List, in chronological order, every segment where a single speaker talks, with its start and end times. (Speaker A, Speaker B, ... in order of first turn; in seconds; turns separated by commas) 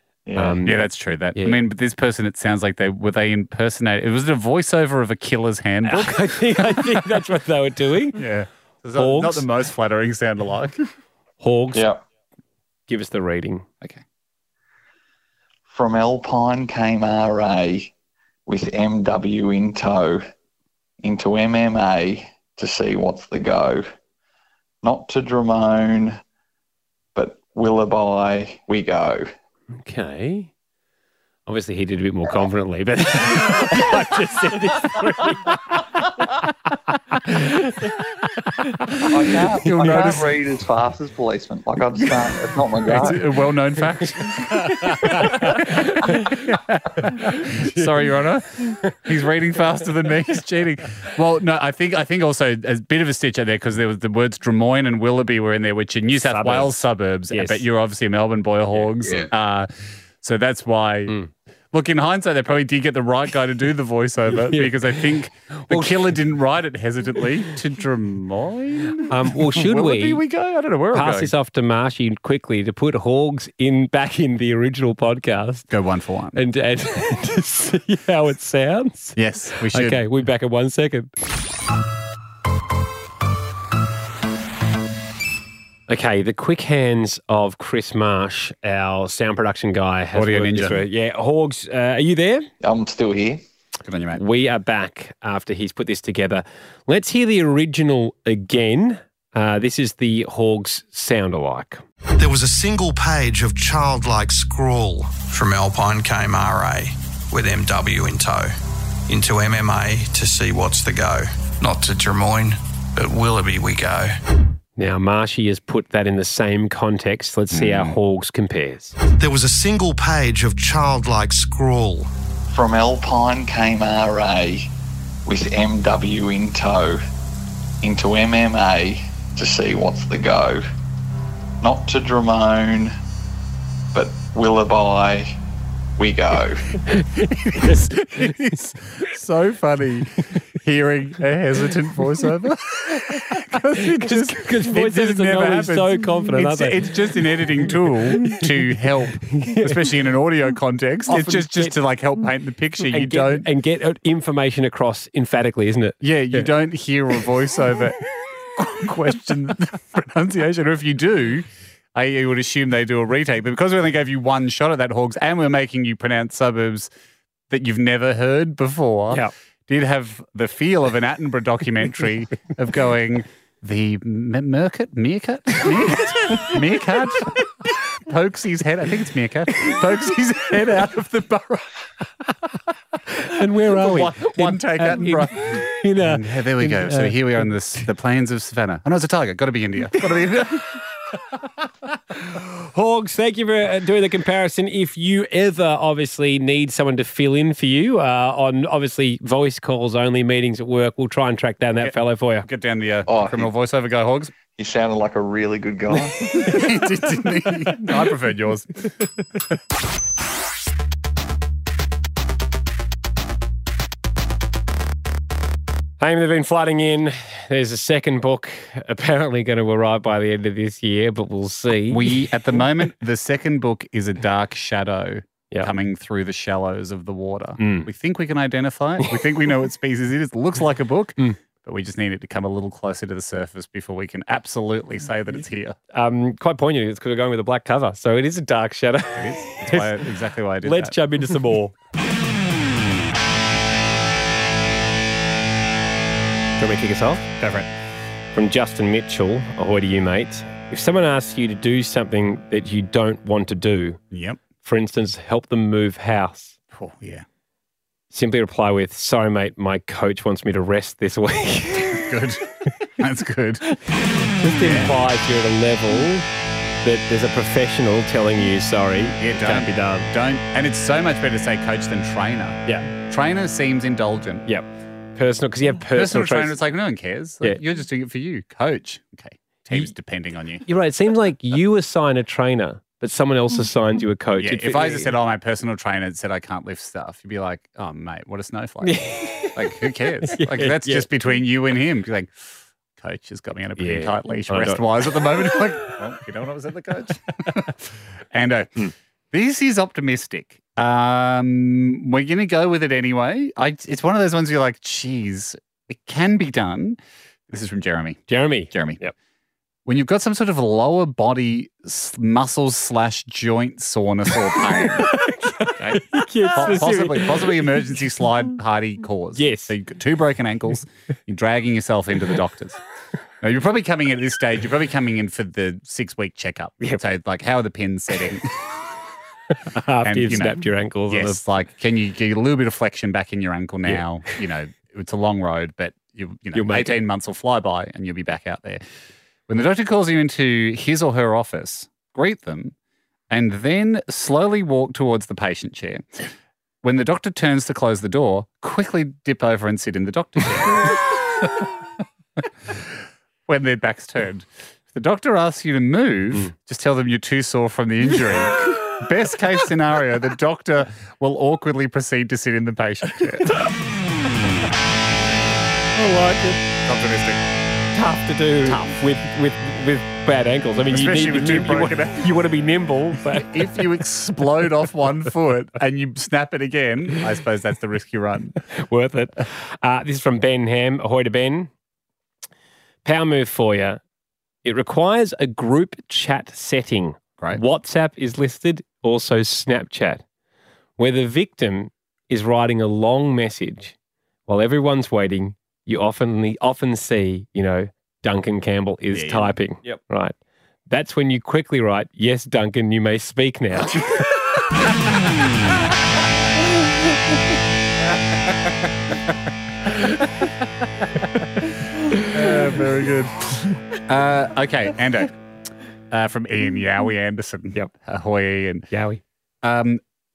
Speaker A: 0.3-0.6, Speaker B: 0.4-1.6, Speaker C: 0.6-7.2, Speaker B: 5.8-8.2, Speaker C: 8.2-10.8, Speaker B: 9.0-9.5, Speaker B: 11.4-11.9, Speaker A: 11.7-12.0, Speaker B: 12.9-13.7, Speaker A: 15.7-17.9, Speaker A: 18.5-20.2, Speaker A: 21.0-23.9, Speaker A: 24.8-26.2, Speaker A: 27.1-29.3, Speaker B: 29.8-30.5, Speaker B: 31.5-35.9, Speaker B: 37.2-37.8, Speaker A: 39.1-43.2, Speaker C: 39.6-40.3, Speaker B: 39.8-40.1, Speaker C: 42.9-59.7, Speaker B: 44.6-46.5, Speaker B: 47.1-47.9, Speaker B: 56.2-57.6, Speaker C: 60.2-61.2, Speaker C: 61.7-71.3, Speaker B: 64.5-66.1, Speaker B: 69.1-70.2, Speaker B: 70.9-75.7, Speaker C: 75.7-76.4, Speaker B: 76.3-81.1, Speaker C: 79.2-80.0, Speaker B: 85.9-92.5, Speaker C: 90.1-90.8, Speaker A: 92.6-93.4, Speaker C: 93.8-94.2, Speaker B: 94.1-101.8, Speaker D: 102.2-108.5, Speaker D: 109.1-114.2, Speaker B: 114.8-119.0, Speaker C: 117.5-118.0, Speaker D: 119.2-122.1, Speaker A: 122.5-124.7, Speaker A: 125.3-127.0, Speaker A: 127.8-130.6, Speaker A: 131.6-132.9, Speaker A: 133.9-135.4, Speaker A: 136.0-136.8, Speaker B: 136.9-138.3, Speaker C: 137.3-153.5, Speaker B: 143.8-148.4, Speaker B: 149.3-149.8, Speaker B: 151.1-151.8, Speaker B: 152.9-156.5, Speaker C: 156.0-158.0, Speaker C: 158.6-166.9, Speaker C: 167.5-177.5, Speaker C: 178.0-181.7, Speaker B: 183.2-187.5, Speaker C: 183.7-190.8, Speaker B: 192.3-202.5, Speaker C: 201.8-204.3, Speaker A: 203.1-203.5, Speaker A: 204.6-206.4, Speaker C: 206.3-208.9, Speaker B: 216.0-222.2, Speaker C: 221.9-235.8, Speaker B: 227.6-227.9, Speaker B: 235.9-240.1, Speaker C: 239.2-241.0, Speaker B: 240.6-241.7, Speaker B: 246.6-247.3, Speaker C: 247.4-247.7, Speaker B: 248.3-254.0, Speaker C: 254.1-254.4, Speaker B: 254.6-256.6, Speaker C: 256.7-257.2, Speaker B: 258.1-262.1, Speaker C: 261.9-263.6, Speaker B: 263.8-266.3, Speaker C: 264.6-264.9, Speaker B: 266.8-270.1, Speaker C: 269.2-274.5, Speaker B: 274.5-276.6, Speaker C: 275.9-280.7, Speaker B: 280.7-285.1, Speaker C: 284.4-309.0, Speaker B: 288.8-291.1, Speaker B: 293.8-295.9, Speaker B: 308.3-309.1, Speaker C: 309.9-315.2, Speaker B: 315.0-317.7, Speaker C: 315.8-322.8, Speaker B: 319.4-319.7, Speaker C: 323.4-328.5, Speaker B: 329.7-331.4, Speaker C: 330.0-338.8, Speaker B: 336.5-337.0, Speaker C: 339.5-342.8, Speaker C: 343.3-346.3, Speaker C: 346.8-351.6, Speaker C: 353.5-363.6, Speaker B: 365.9-366.6, Speaker C: 366.9-367.4, Speaker B: 367.9-373.7, Speaker C: 368.6-369.0, Speaker C: 370.9-372.4, Speaker C: 373.3-378.6, Speaker B: 378.8-381.7, Speaker B: 383.1-384.0, Speaker B: 384.6-390.2, Speaker B: 391.0-393.9, Speaker B: 394.5-400.3, Speaker C: 399.1-399.6, Speaker B: 400.9-404.1, Speaker C: 408.5-409.1, Speaker B: 412.1-412.6, Speaker C: 412.2-415.4, Speaker C: 416.1-418.9, Speaker B: 418.9-419.2, Speaker C: 419.6-420.0